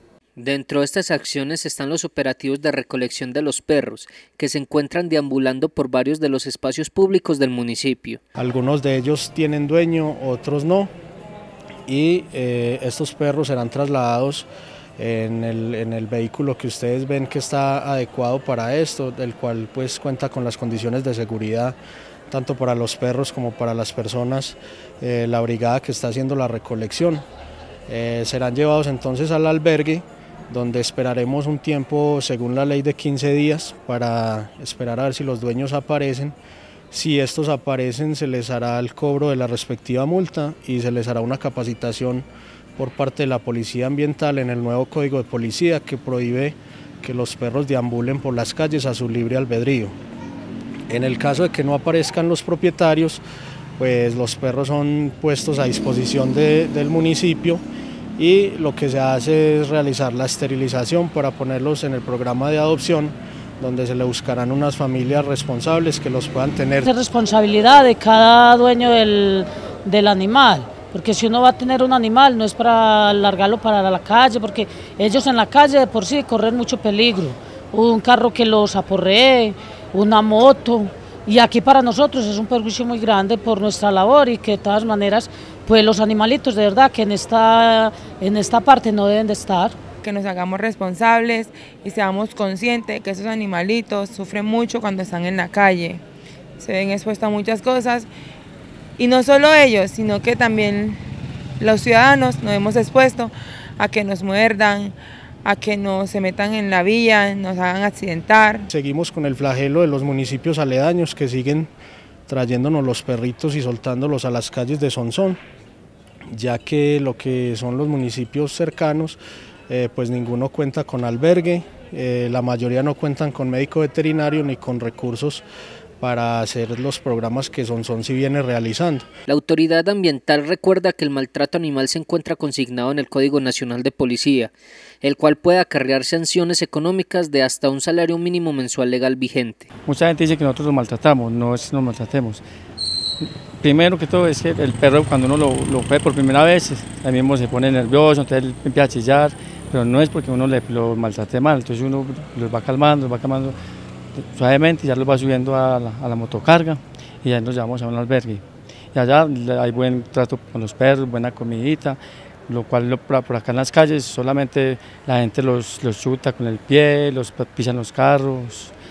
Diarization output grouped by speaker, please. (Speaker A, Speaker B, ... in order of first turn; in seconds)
Speaker A: 0.4-8.2, 129.3-139.7
Speaker B: 8.4-10.9, 11.9-14.5, 15.0-21.8, 22.3-27.2, 27.9-36.4, 36.9-50.0, 50.9-53.2, 53.8-57.6, 58.2-66.9, 108.7-111.7, 112.3-115.4, 116.3-119.2, 119.7-125.4, 126.0-129.1
Speaker C: 66.8-89.8
Speaker D: 90.0-96.0, 96.6-98.1, 99.0-101.0, 101.6-108.7
Speaker E: 139.9-142.4, 143.2-153.6, 154.3-158.4, 158.9-168.7